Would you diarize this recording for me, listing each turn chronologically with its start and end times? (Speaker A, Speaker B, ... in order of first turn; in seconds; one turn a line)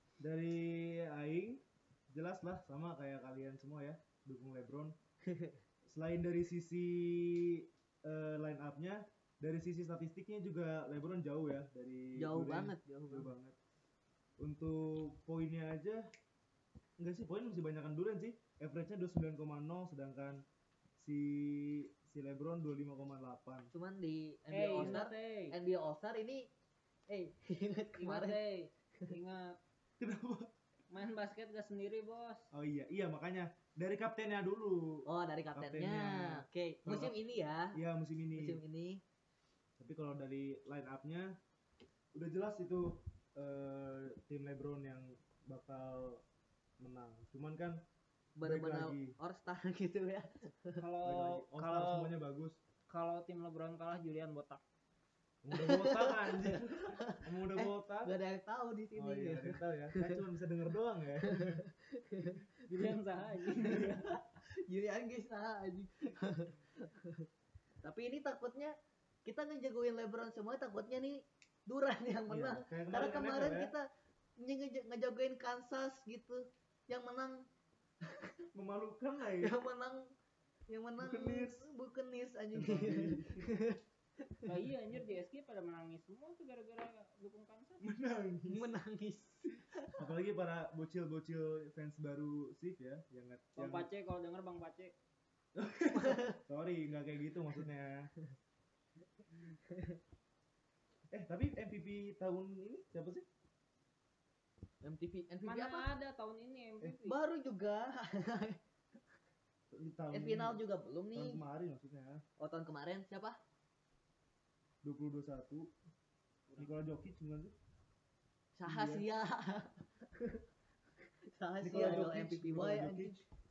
Speaker A: 0.2-5.0
Speaker B: 5.3-5.6
Speaker A: 5.9-13.6
Speaker B: 12.2-13.3
Speaker A: 14.4-16.1
Speaker A: 17.0-20.4
Speaker A: 21.0-23.7
Speaker B: 23.7-26.5
Speaker C: 24.5-25.6
Speaker B: 27.1-28.4
Speaker C: 28.0-29.6
Speaker A: 30.0-30.5
Speaker C: 30.9-32.5
Speaker A: 32.5-37.1
Speaker B: 35.1-37.8
Speaker A: 37.7-38.6
Speaker B: 38.4-39.0
Speaker A: 39.8-41.4
Speaker A: 42.1-46.2
Speaker A: 46.8-47.8
Speaker B: 48.4-50.8
Speaker A: 48.4-49.2
Speaker C: 50.8-52.1
Speaker A: 51.0-52.6
Speaker C: 52.9-54.6
Speaker A: 55.4-58.1
Speaker B: 55.5-60.2
Speaker A: 59.0-61.6
Speaker B: 61.2-62.9
Speaker C: 62.7-64.2
Speaker B: 63.7-67.3
Speaker B: 67.8-77.5
Speaker A: 72.3-73.8
Speaker B: 78.0-78.3
Speaker A: 78.5-79.5
Speaker B: 79.4-80.1
Speaker B: 80.7-84.5
Speaker A: 81.0-81.7
Speaker A: 82.5-83.5
Speaker C: 84.5-87.9
Speaker A: 87.8-88.7
Speaker B: 88.5-90.0
Speaker A: 90.0-93.9
Speaker C: 93.6-94.9
Speaker A: 95.5-98.1
Speaker B: 95.9-96.4
Speaker A: 101.1-103.3
Speaker B: 104.8-105.9
Speaker C: 105.4-107.2
Speaker B: 107.0-108.6
Speaker A: 109.7-110.6
Speaker B: 110.1-111.4
Speaker A: 111.1-112.2
Speaker B: 112.4-113.4
Speaker A: 114.8-115.7
Speaker C: 116.5-116.7
Speaker A: 116.6-117.6
Speaker B: 118.6-120.4
Speaker A: 118.7-119.1
Speaker B: 121.3-123.2
Speaker A: 121.6-123.2
Speaker C: 121.7-122.1